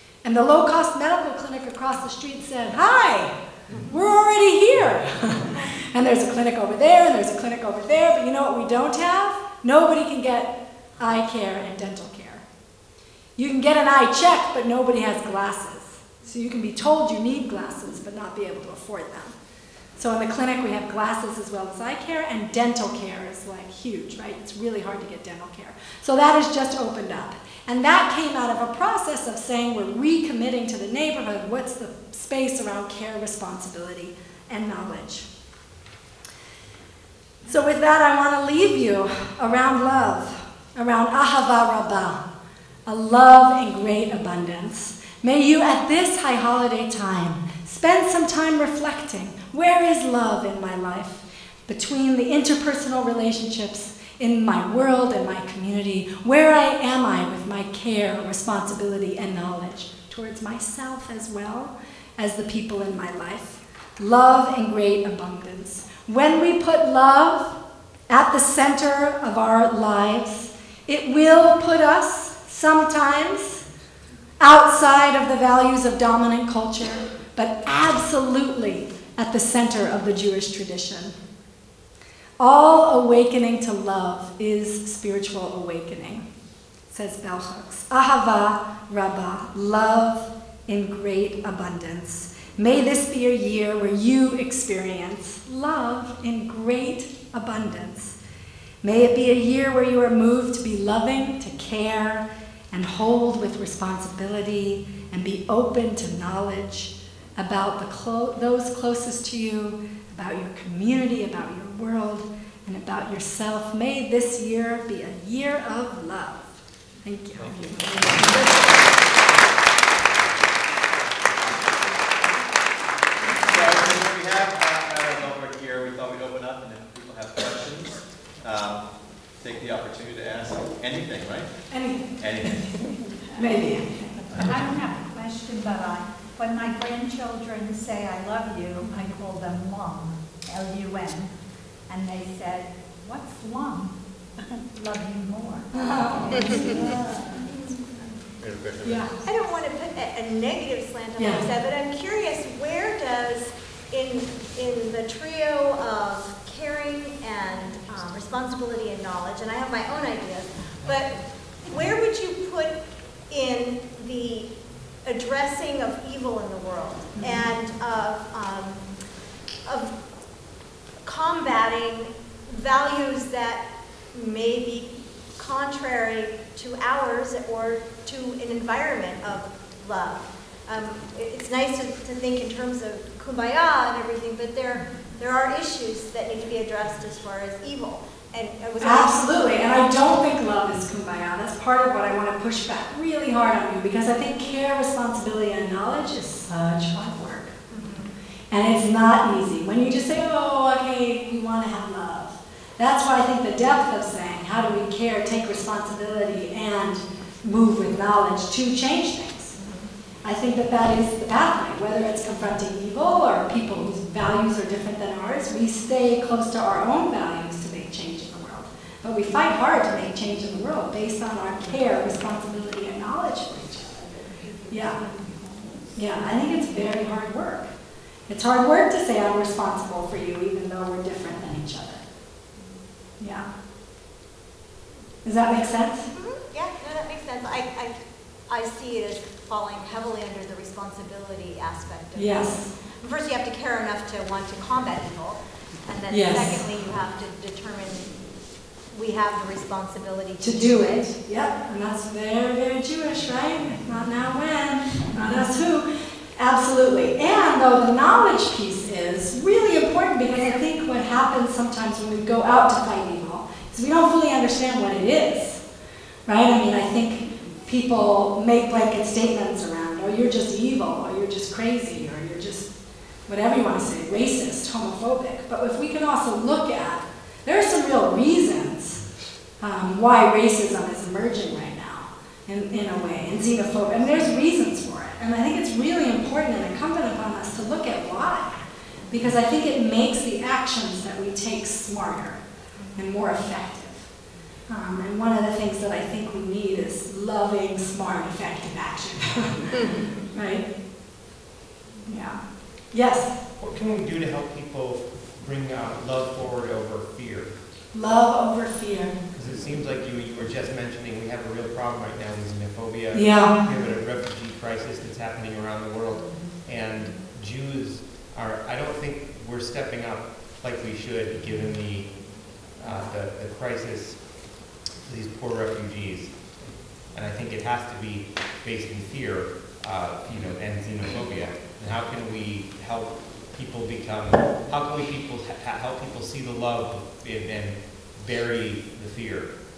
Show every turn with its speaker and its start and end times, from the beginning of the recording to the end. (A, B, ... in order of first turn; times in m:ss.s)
0:00.2-0:12.4 A
0:13.4-0:19.3 A
0:20.0-0:35.3 A
0:37.4-0:42.2 A
0:42.8-1:07.6 A
1:08.1-1:13.6 A
1:14.4-1:21.1 A
1:22.4-1:26.3 A
1:26.9-1:38.2 A
1:38.8-1:58.3 A
1:57.4-1:58.1 B
2:01.0-2:02.3 B
2:03.4-2:08.8 B
2:09.4-2:11.5 B
2:11.7-2:12.6 A
2:12.2-2:12.6 B
2:13.4-2:14.2 A
2:14.2-2:21.3 C
2:21.9-2:23.9 C
2:24.5-2:27.4 C
2:25.7-2:26.6 A
2:27.4-2:27.7 D
2:28.4-2:29.1 B
2:28.8-2:29.1 A
2:29.2-2:44.5 D
2:31.2-2:31.5 A
2:45.0-2:48.8 D
2:49.6-2:50.0 D
2:51.0-3:09.3 D
3:08.8-3:17.5 A
3:17.7-3:18.1 D
3:18.5-3:29.5 A
3:29.6-3:29.9 D
3:30.2-3:44.0 A
3:44.7-3:45.0 A
3:45.9-3:47.7 A
3:48.3-3:52.0 A
3:53.2-3:53.5 A
3:55.2-3:56.1 A
3:56.1-4:08.2 D
4:02.1-4:02.7 A
4:06.1-4:06.6 A
4:08.9-4:11.1 D
4:10.4-4:25.6 A
4:26.2-4:32.7 A
4:33.3-4:39.0 A
4:39.6-4:48.6 A
4:49.1-4:52.4 A
4:52.9-4:54.1 A
4:54.7-5:00.7 A
5:02.1-5:03.4 A
5:03.6-5:07.5 E
5:07.9-5:09.2 A
5:09.3-5:39.5 E
5:13.1-5:13.6 A